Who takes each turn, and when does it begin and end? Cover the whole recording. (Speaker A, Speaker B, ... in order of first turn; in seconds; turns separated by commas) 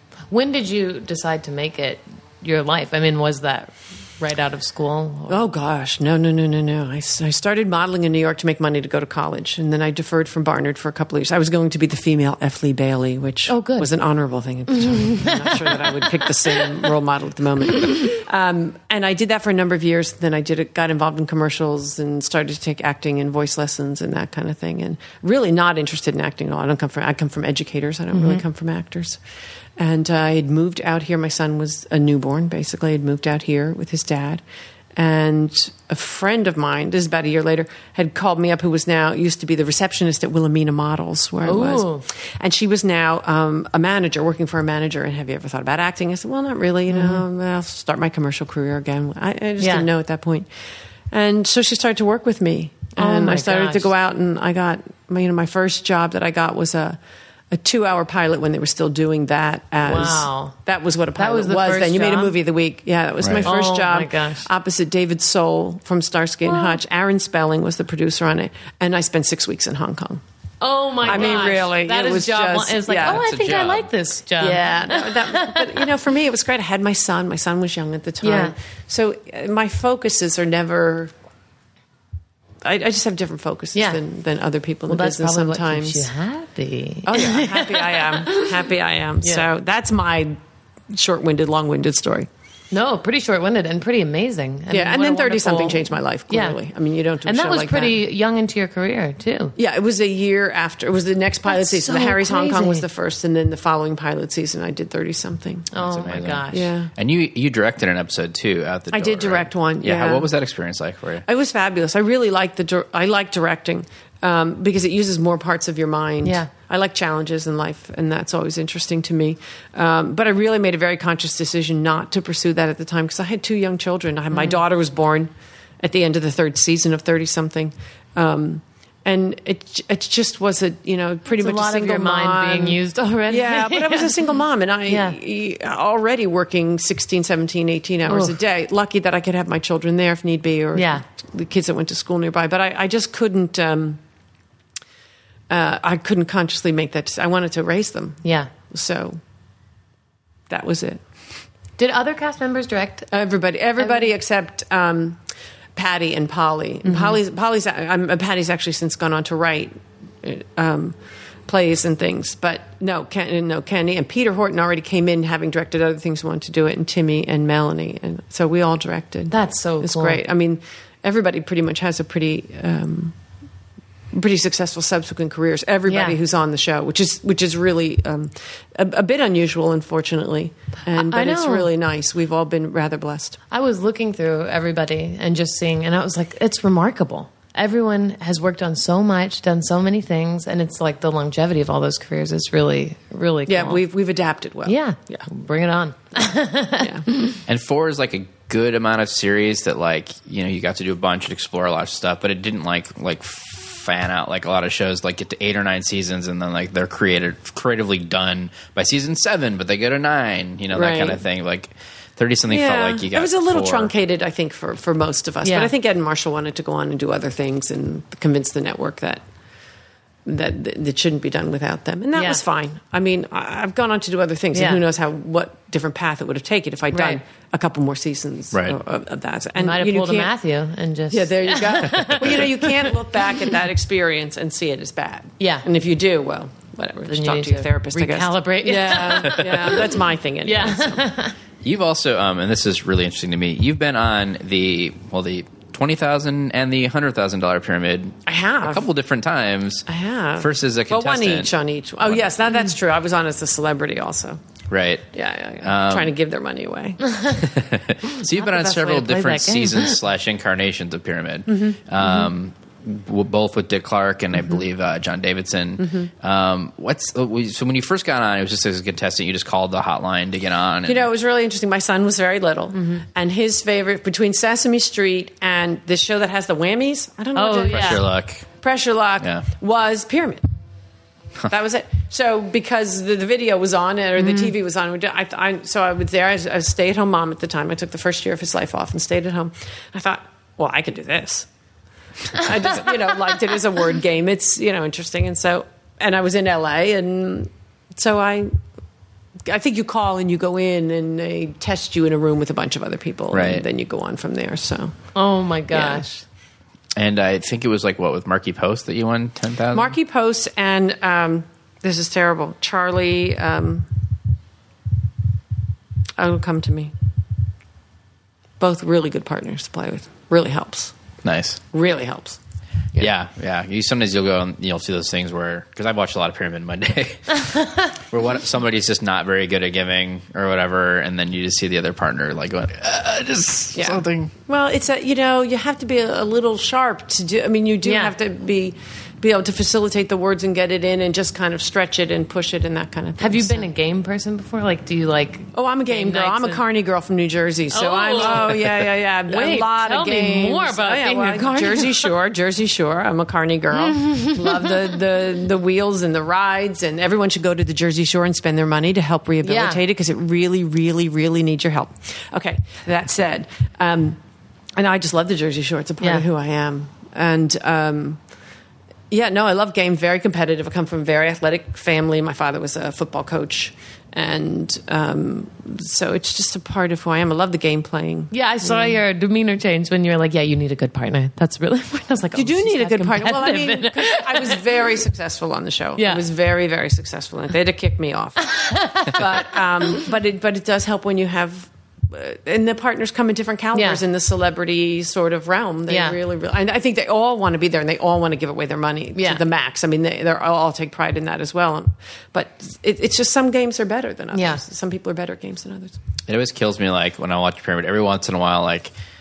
Speaker A: 0.3-5.4, Speaker B: 5.3-29.2, Speaker A: 13.5-13.9, Speaker A: 14.8-15.9, Speaker A: 28.1-28.4, Speaker B: 29.8-34.4, Speaker B: 35.0-50.5, Speaker A: 41.4-42.0, Speaker A: 46.9-47.2, Speaker A: 49.6-49.9, Speaker B: 51.1-57.0, Speaker A: 53.0-53.9, Speaker B: 57.5-70.2, Speaker A: 59.8-60.5, Speaker A: 61.1-62.3, Speaker C: 63.2-63.5, Speaker A: 63.4-64.5, Speaker A: 66.5-66.8, Speaker A: 70.6-75.8, Speaker B: 71.0-73.2, Speaker C: 71.0-71.3, Speaker C: 73.0-73.9, Speaker B: 74.4-81.1, Speaker A: 78.2-78.5, Speaker B: 82.6-86.1, Speaker A: 83.7-84.0, Speaker A: 84.9-88.5, Speaker B: 87.0-90.4, Speaker B: 90.9-92.3, Speaker A: 92.7-96.6, Speaker B: 94.7-98.0, Speaker A: 97.2-99.5, Speaker B: 99.6-105.7, Speaker A: 101.5-102.8, Speaker A: 105.7-106.7, Speaker C: 105.8-111.2, Speaker B: 106.5-106.9, Speaker B: 108.9-110.3, Speaker B: 111.2-144.0, Speaker A: 116.2-116.5, Speaker A: 124.3-124.6, Speaker A: 131.3-134.3, Speaker A: 134.9-135.2, Speaker A: 138.1-138.4, Speaker A: 140.7-141.0, Speaker B: 145.5-149.2, Speaker A: 148.2-148.5, Speaker B: 150.5-151.0, Speaker A: 151.8-153.1, Speaker B: 153.1-155.2, Speaker A: 153.8-154.1, Speaker B: 155.8-173.1, Speaker A: 156.8-157.2, Speaker A: 169.3-170.2, Speaker B: 174.1-183.4, Speaker A: 175.9-176.2, Speaker A: 180.9-181.7, Speaker A: 183.5-193.8, Speaker B: 193.5-195.2, Speaker A: 194.7-197.4, Speaker B: 196.8-197.0, Speaker C: 197.5-213.9, Speaker B: 210.7-211.2, Speaker B: 212.5-219.2, Speaker A: 215.4-215.7, Speaker B: 220.2-230.3, Speaker A: 222.2-222.4, Speaker A: 224.5-224.8, Speaker A: 226.9-227.2, Speaker C: 228.5-228.8, Speaker A: 229.6-233.4, Speaker B: 231.1-241.0, Speaker A: 235.4-235.7, Speaker A: 237.1-239.9, Speaker C: 239.3-239.6, Speaker A: 240.4-241.3, Speaker C: 241.6-249.8, Speaker B: 248.2-248.8, Speaker B: 249.9-254.4, Speaker C: 250.4-252.2, Speaker C: 254.7-255.1, Speaker B: 255.1-257.1, Speaker C: 255.6-256.1, Speaker A: 257.0-257.4, Speaker C: 257.3-271.1, Speaker A: 258.3-259.9, Speaker B: 261.5-261.8, Speaker B: 265.8-266.1, Speaker B: 270.9-278.1, Speaker A: 277.3-278.0, Speaker C: 277.7-278.5, Speaker B: 278.6-280.4, Speaker C: 279.2-279.4, Speaker B: 281.5-291.5, Speaker A: 284.2-284.5, Speaker B: 292.3-298.5, Speaker B: 299.4-304.9, Speaker C: 303.3-303.6, Speaker A: 305.1-306.2, Speaker B: 305.7-306.1, Speaker C: 306.9-309.9, Speaker B: 309.7-313.9, Speaker B: 316.2-316.9, Speaker B: 318.6-320.9, Speaker C: 321.2-321.6, Speaker B: 321.7-322.4, Speaker C: 323.0-334.3, Speaker B: 333.8-343.6, Speaker A: 337.8-338.1, Speaker A: 343.2-346.6, Speaker B: 345.5-364.2, Speaker A: 347.7-352.1, Speaker A: 353.8-354.8, Speaker A: 359.4-359.8, Speaker B: 364.8-368.2, Speaker B: 369.1-379.0, Speaker A: 378.3-384.6, Speaker B: 382.3-406.0, Speaker A: 386.0-386.2, Speaker A: 388.4-389.5, Speaker A: 393.7-394.0, Speaker A: 395.9-396.2, Speaker A: 399.1-399.4, Speaker A: 404.3-404.6, Speaker C: 406.3-408.9